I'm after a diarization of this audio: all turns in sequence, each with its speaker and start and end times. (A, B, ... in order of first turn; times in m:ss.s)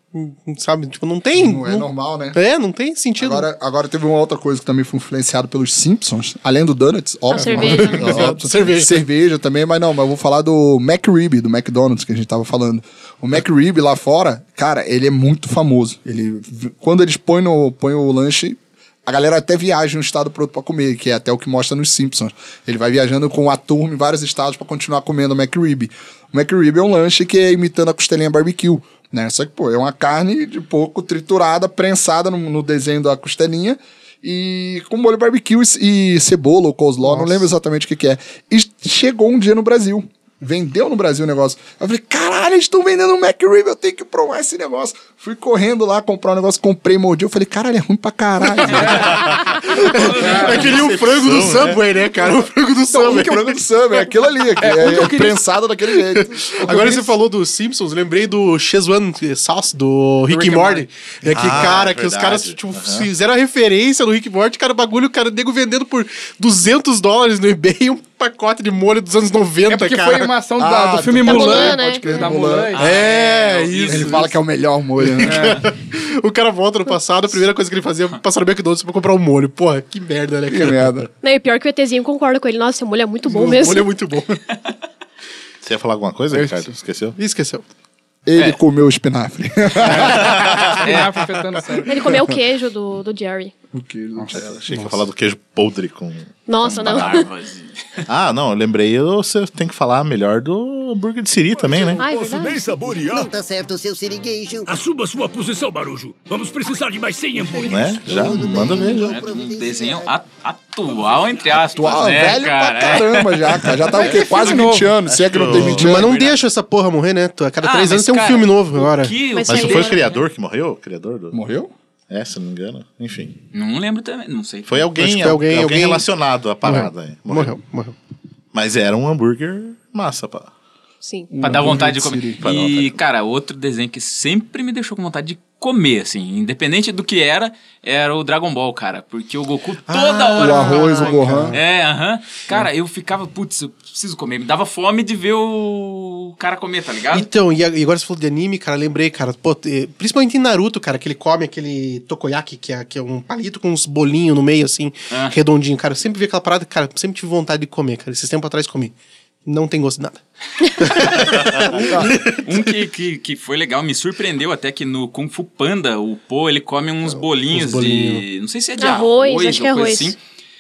0:00.1-0:03.5 A
0:01.4-0:02.4 B
0:03.2-0:49.1 B
0:07.3-0:08.3 C
0:07.3-0:09.0 A
0:37.0-0:37.4 A
0:48.8-0:49.1 D
0:48.8-0:52.3 E
0:49.6-0:53.4 A
0:50.2-0:50.7 D
0:52.9-0:53.6 D
0:53.1-0:57.1 B
0:54.6-0:55.4 D
0:56.0-1:10.3 A
1:00.3-1:00.9 D
1:01.3-1:03.1 E
1:09.6-1:12.9 D
1:10.6-1:12.8 B
1:11.2-1:12.3 C
1:12.7-1:14.3 F
1:12.8-1:14.3 A
1:13.9-1:15.7 B
1:15.0-1:21.0 A
1:15.2-1:15.6 D
1:20.5-1:21.1 B
1:21.2-1:23.9 C
1:23.3-1:24.4 A
1:25.6-1:27.2 E
1:26.3-1:26.7 D
1:27.2-1:27.6 A
1:28.3-1:30.5 B
1:29.9-1:32.0 D
1:29.9-1:30.8 E
1:30.8-1:31.2 F
1:31.8-1:33.5 C
1:33.7-1:34.7 B
1:34.2-1:34.4 D
1:34.4-1:37.2 E
1:34.7-1:35.0 A
1:36.5-1:37.3 C
1:36.8-1:38.0 F
1:38.1-1:42.0 E
1:41.5-1:43.3 G
1:42.0-1:42.6 C
1:42.0-1:43.1 B
1:43.0-1:44.8 H
1:44.7-1:48.4 G
1:47.6-1:49.2 E
1:48.1-1:50.1 H
1:48.9-1:56.4 F
1:51.7-1:56.1 B
1:54.0-1:54.4 E
1:55.1-1:56.0 E
1:55.6-1:59.2 A
1:57.6-2:00.2 F
1:59.3-2:00.2 C
1:59.4-2:01.4 E
2:01.3-2:01.7 B
2:02.1-2:03.4 E
2:03.5-2:04.9 F
2:04.7-2:07.6 E
2:05.0-2:06.1 A
2:06.6-2:08.0 A
2:08.5-2:10.5 E
2:11.0-2:11.3 C
2:11.3-2:12.4 B
2:11.4-2:27.3 F
2:12.4-2:13.0 E
2:19.9-2:21.6 A
2:20.4-2:21.6 B
2:27.1-2:38.9 A
2:39.5-2:42.7 A
2:41.2-2:42.1 E
2:41.8-2:42.1 B
2:42.4-2:50.2 F
2:47.0-2:48.2 A
2:48.8-2:50.2 C